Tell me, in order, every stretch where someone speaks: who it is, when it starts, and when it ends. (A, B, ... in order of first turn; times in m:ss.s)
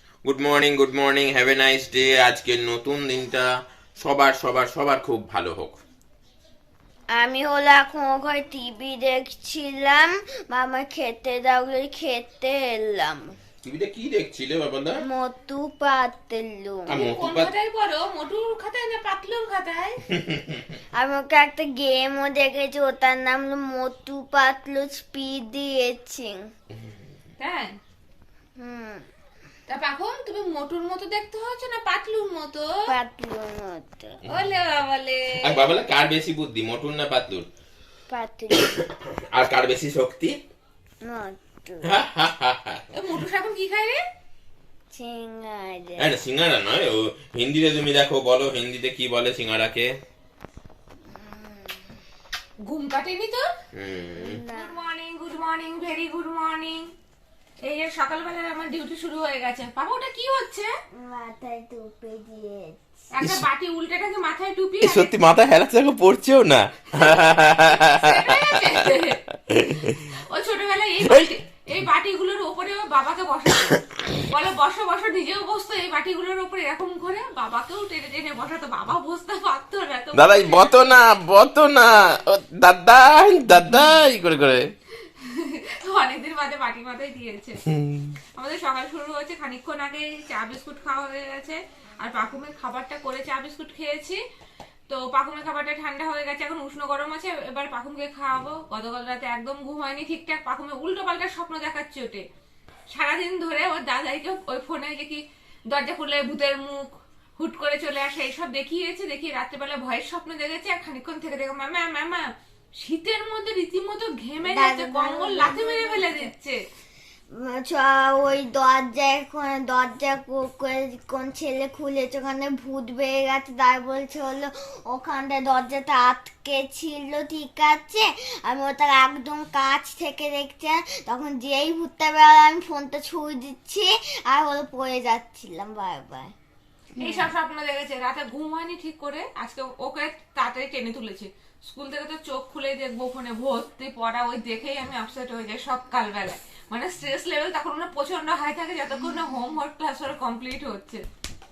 0:00.2-0:05.8 A
0:07.1-0:13.3 B
0:13.6-0:15.0 A
0:15.1-0:17.0 B
0:16.9-0:17.5 A
0:16.9-0:20.0 C
0:20.2-0:20.6 A
0:21.0-0:26.4 B
0:27.4-0:27.8 C
0:28.6-0:29.0 B
0:29.7-0:32.7 C
0:32.9-0:34.2 B
0:34.2-0:34.5 A
0:34.3-0:35.8 C
0:35.4-0:37.5 A
0:38.1-0:38.8 B
0:38.6-0:40.4 A
0:41.0-0:41.9 B
0:41.8-0:42.8 A
0:42.9-0:44.0 C
0:44.9-0:46.1 B
0:46.0-0:49.9 A
0:51.1-0:51.9 B
0:52.6-0:53.5 C
0:53.7-0:54.4 A
0:54.2-0:54.8 B
0:54.4-0:56.9 C
0:57.6-1:00.7 C
1:00.9-1:03.1 B
1:03.1-1:05.1 C
1:03.2-1:03.4 A
1:04.8-1:08.8 A
1:06.9-1:09.2 C
1:09.5-1:10.1 A
1:10.1-1:21.0 C
1:11.0-1:11.3 A
1:20.1-1:24.7 A
1:25.2-1:27.6 C
1:27.7-1:28.2 A
1:28.4-1:34.2 C
1:34.9-1:42.2 C
1:42.9-1:56.6 C
1:54.4-1:56.3 B
1:57.3-2:16.3 B
2:17.0-2:31.0 C
2:17.0-2:17.3 B